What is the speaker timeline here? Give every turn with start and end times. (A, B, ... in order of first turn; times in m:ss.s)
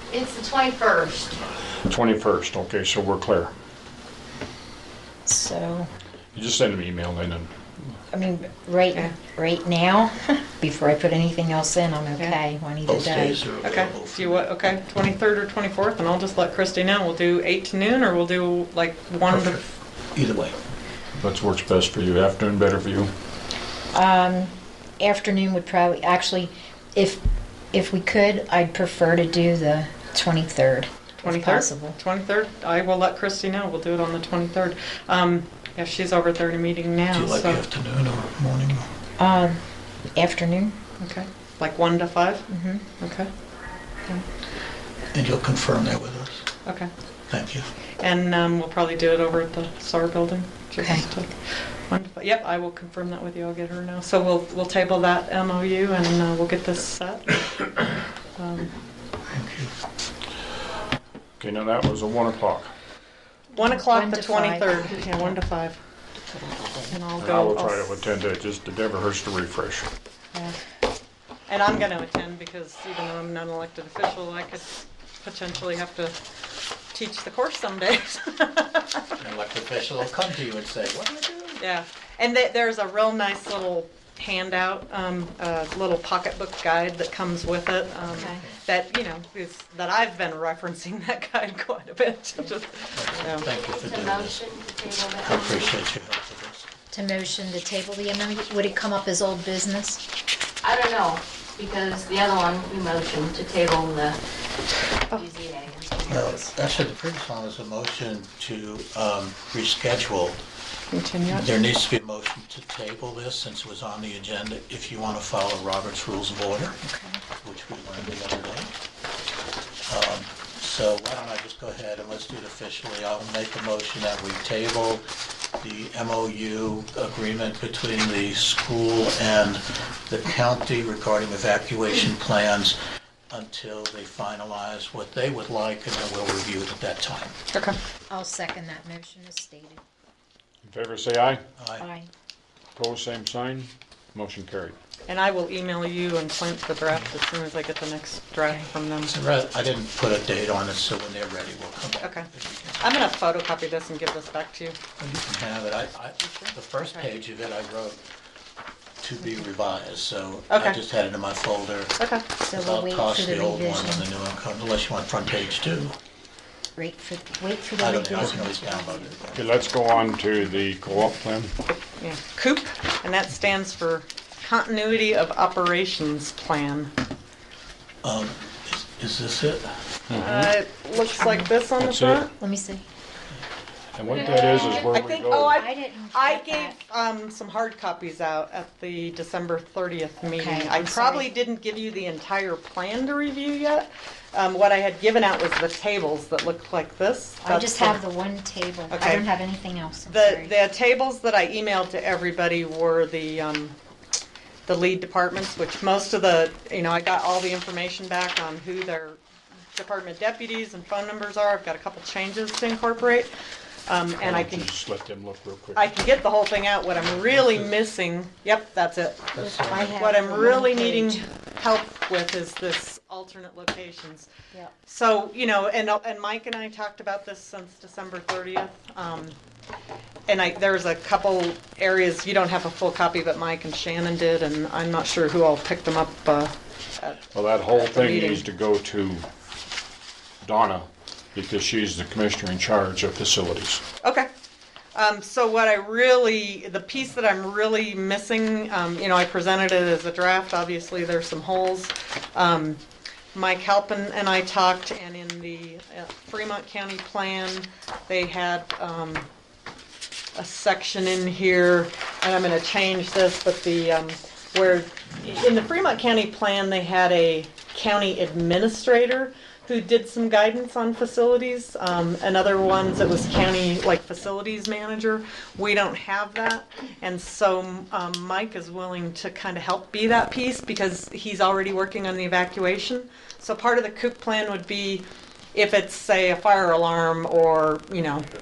0:00.1-0:01.4 A
0:01.8-0:03.5 B
0:05.3-0:05.9 C
0:06.3-0:08.0 B
0:08.1-0:13.5 C
0:12.9-0:14.5 D
0:13.6-0:19.6 E
0:19.3-0:20.6 D
0:21.2-0:23.1 B
0:23.9-0:32.0 C
0:31.2-0:37.6 E
0:37.1-0:38.9 D
0:39.2-0:40.8 C
0:41.0-0:42.5 E
0:42.5-0:42.9 C
0:43.0-0:43.3 E
0:45.1-0:46.4 D
0:46.7-0:46.9 E
0:47.3-0:47.7 D
0:48.0-0:57.8 E
0:50.8-0:51.1 C
0:58.4-0:58.7 E
0:59.3-0:59.7 D
1:01.4-1:02.7 B
1:03.5-1:05.4 C
1:03.6-1:05.8 E
1:06.2-1:07.0 C
1:06.9-1:08.1 E
1:07.2-1:09.9 B
1:10.3-1:10.6 E
1:11.5-1:16.2 E
1:16.9-1:19.2 E
1:19.2-1:21.6 D
1:21.6-1:33.5 E
1:28.1-1:28.6 D
1:28.1-1:28.4 C
1:33.0-1:34.4 D
1:33.5-1:35.7 A
1:35.2-1:36.7 D
1:36.9-1:40.0 C
1:40.6-1:44.2 A
1:45.1-1:46.2 A
1:46.0-1:46.5 E
1:46.1-1:50.4 D
1:50.9-1:51.5 E
1:51.3-1:56.8 D
1:56.9-1:57.2 C
1:57.4-1:58.7 D
1:59.9-2:05.0 D
2:05.6-2:12.8 D
2:13.3-2:17.4 D
2:17.5-2:17.8 E
2:18.1-2:19.8 C
2:20.6-2:21.4 B
2:21.6-2:21.9 D
2:21.8-2:22.1 C
2:22.8-2:24.8 B
2:25.1-2:29.2 E
2:29.0-2:32.9 D
2:32.0-2:32.3 E
2:32.8-2:34.8 E
2:35.0-2:38.0 D
2:36.2-2:37.1 E
2:39.0-2:46.0 D
2:40.5-2:40.8 E
2:42.0-2:42.3 E
2:42.4-2:44.1 C
2:46.8-2:49.1 C
2:47.8-2:49.5 D
2:49.3-2:51.5 B
2:52.0-2:56.9 E
2:58.0-2:59.8 D
3:00.1-3:00.5 B
3:00.2-3:02.3 E
3:01.0-3:01.5 C
3:01.8-3:02.2 B
3:02.4-3:02.9 C
3:03.9-3:05.6 B
3:04.2-3:04.9 A
3:04.8-3:18.0 E
3:05.5-3:06.8 C
3:10.2-3:11.3 C
3:17.4-3:20.6 C
3:18.9-3:19.3 E
3:20.1-3:23.8 E
3:24.7-3:29.2 E
3:29.8-3:33.3 E
3:33.9-3:34.7 E
3:34.2-3:35.9 B
3:35.8-3:44.3 E
3:39.3-3:40.0 D
3:39.4-3:41.3 C
3:44.8-3:49.4 E
3:50.3-3:58.5 E
3:57.3-3:59.3 B
4:00.4-4:03.8 B
4:04.0-4:04.3 E
4:05.0-4:12.8 E
4:13.3-4:19.3 E
4:20.4-4:48.3 E